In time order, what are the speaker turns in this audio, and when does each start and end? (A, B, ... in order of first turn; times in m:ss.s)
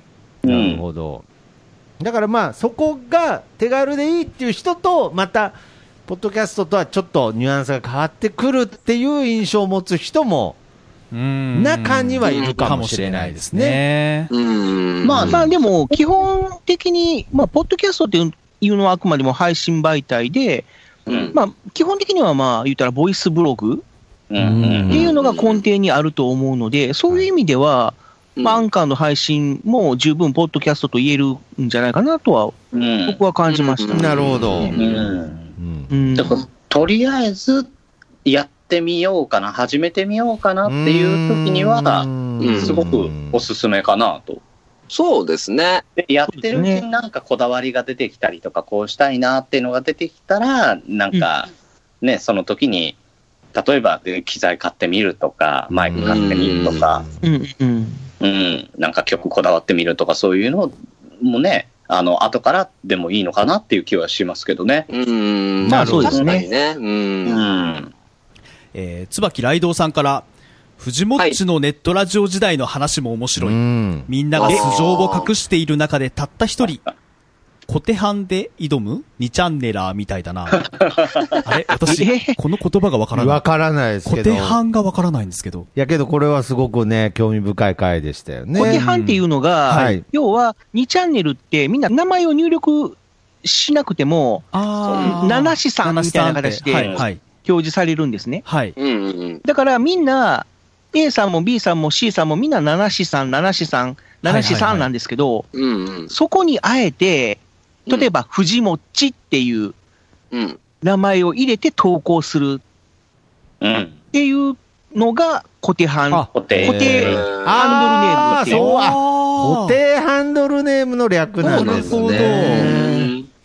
0:00.4-0:00.8 A
0:00.4-0:01.2 B
0:02.0-0:05.6 B
0:06.1-0:10.6 B
0:11.1-0:14.3 C
0:11.5-0:13.8 B
0:12.2-0:12.6 D
0:14.3-0:15.2 D
0:15.0-0:15.5 A
0:15.2-0:20.7 E
0:21.1-0:21.3 A
0:21.1-0:21.3 D
0:21.3-0:23.8 E
0:24.3-0:25.1 A
0:24.4-0:25.1 B
0:24.9-0:32.6 E
0:24.9-0:25.6 D
0:28.4-0:28.6 D
0:32.7-0:33.2 A
0:33.1-0:34.7 E
0:33.5-0:34.6 D
0:33.9-0:35.9 B
0:34.6-0:35.5 A
0:35.9-0:36.4 E
0:36.2-0:37.7 A
0:38.2-0:44.4 A
0:40.6-0:43.4 B
0:42.4-0:42.8 D
0:44.9-0:45.8 D
0:46.0-0:51.5 A
0:46.5-0:46.8 E
0:52.0-0:53.0 A
0:53.5-0:57.0 A
0:55.7-0:57.2 B
0:56.0-0:56.9 D
0:57.2-0:58.0 E
0:58.2-1:04.9 A
1:04.9-1:07.4 D
1:05.6-1:06.2 B
1:05.7-1:06.3 E
1:06.1-1:06.4 A
1:07.2-1:07.9 A
1:08.7-1:10.2 C
1:10.8-1:16.8 C
1:13.4-1:14.1 B
1:14.4-1:15.3 D
1:17.7-1:20.7 C
1:21.4-1:23.4 C
1:21.9-1:22.4 E
1:23.1-1:24.6 B
1:24.0-1:25.7 C
1:25.8-1:28.8 B
1:28.5-1:34.5 E
1:28.6-1:30.0 C
1:29.7-1:30.0 B
1:34.5-1:37.2 C
1:34.9-1:35.2 A
1:35.0-1:38.4 E
1:36.7-1:37.0 A
1:38.4-1:38.8 C
1:38.8-1:39.4 D
1:39.4-1:45.5 E
1:44.2-1:44.9 C
1:45.5-1:46.1 D
1:46.1-1:49.7 E
1:50.3-1:50.6 D
1:50.8-1:52.6 E
1:53.6-1:54.0 A
1:54.1-1:58.8 E
1:56.1-2:03.1 B
1:56.3-1:58.7 A
1:57.1-1:57.6 D
1:58.6-1:59.8 C
2:01.4-2:03.2 D
2:01.6-2:01.8 E
2:01.7-2:02.7 C